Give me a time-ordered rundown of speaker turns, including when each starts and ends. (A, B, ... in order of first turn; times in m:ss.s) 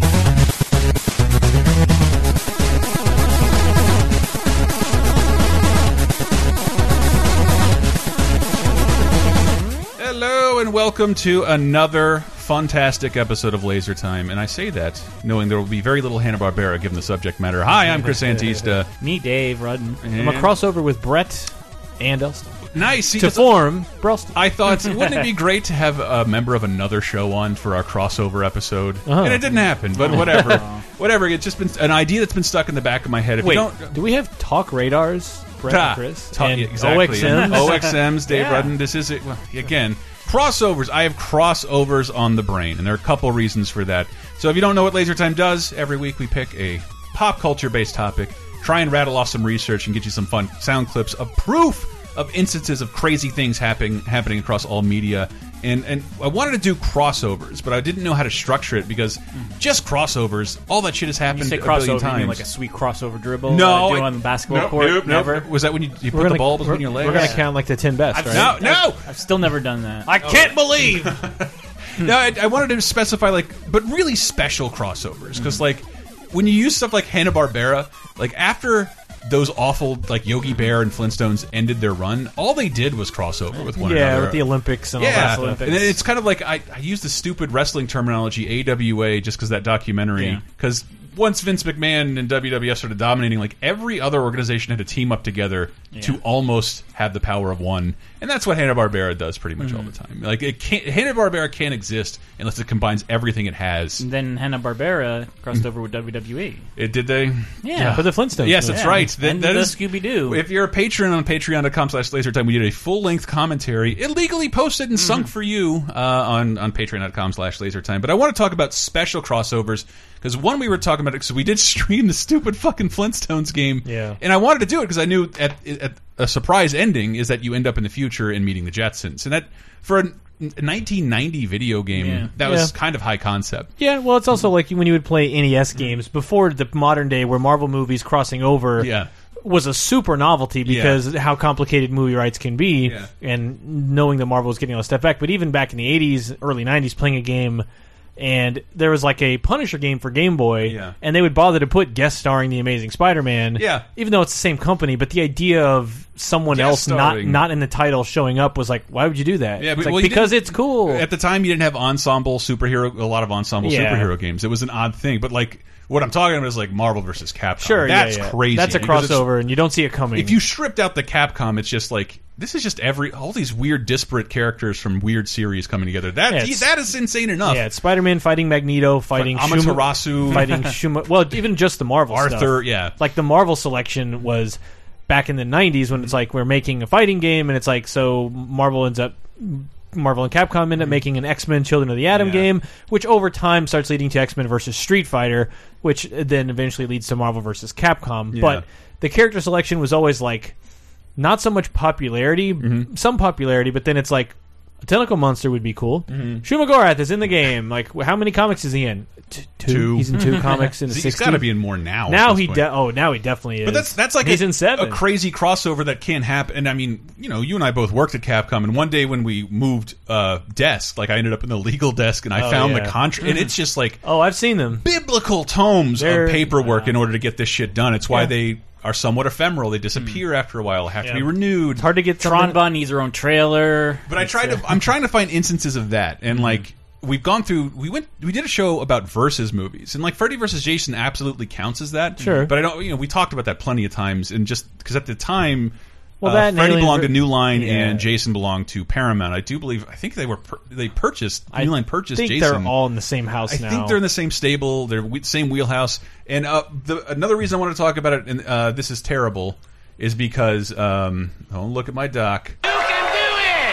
0:10.0-0:18.9 A
0:17.8-0:18.8 B
0:19.0-0:20.0 C
0:20.0-0:20.5 A
0:20.2-0:24.4 B
0:22.7-0:23.7 A
0:24.3-0:34.0 A
0:24.7-0:25.3 C
0:29.1-0:29.4 B
0:29.4-0:30.8 C
0:30.1-0:30.5 B
0:33.4-0:38.0 B
0:35.7-1:02.4 A
0:37.0-0:38.7 C
1:01.3-1:05.5 C
1:03.5-1:07.4 A
1:06.1-1:08.6 B
1:07.0-1:07.4 C
1:08.1-1:10.1 C
1:08.3-1:09.0 A
1:10.1-1:11.2 B
1:10.2-1:24.4 A
1:15.3-1:15.6 C
1:23.8-1:26.0 B
1:25.0-1:44.0 A
1:30.2-1:30.4 C
1:35.9-1:36.2 C
1:39.6-1:39.9 C
1:44.0-1:46.7 C
1:46.8-2:13.7 A
1:47.6-1:48.0 C
1:47.8-1:49.1 B
1:48.7-1:50.4 C
1:55.0-1:55.3 C
2:03.8-2:04.2 B
2:12.0-2:12.3 C
2:12.4-2:12.7 B
2:13.8-2:18.9 B
2:18.8-2:19.1 A
2:19.4-2:27.6 B
2:20.6-2:21.0 A
2:22.8-2:23.1 A
2:28.2-2:41.0 B
2:30.6-2:31.0 A
2:33.6-2:33.8 A
2:36.5-2:37.4 A
2:39.6-2:49.3 A
2:43.6-2:44.1 B
2:47.6-2:50.4 B
2:50.2-2:57.7 A
2:56.3-2:56.7 B
2:57.4-3:20.6 B
2:59.2-3:00.7 A
3:02.1-3:02.9 A
3:12.1-3:12.5 A
3:18.3-3:18.6 A
3:21.2-3:31.5 B
3:22.6-3:22.9 A
3:26.1-3:26.4 A
3:29.7-3:32.7 A
3:30.1-3:30.7 C
3:32.1-3:35.0 B
3:33.6-3:44.0 A
3:42.4-3:43.0 B
3:43.2-3:43.5 C
3:44.0-3:44.8 B
3:44.8-3:51.9 A
3:46.0-3:46.8 B
3:50.0-3:50.2 C
3:51.0-3:52.6 B
3:52.2-3:54.1 C
3:54.1-4:12.8 A
3:54.2-3:54.6 B
3:56.3-3:56.6 C
4:02.2-4:02.5 B
4:06.2-4:08.1 B
4:11.5-4:14.0 B
4:13.5-4:22.6 A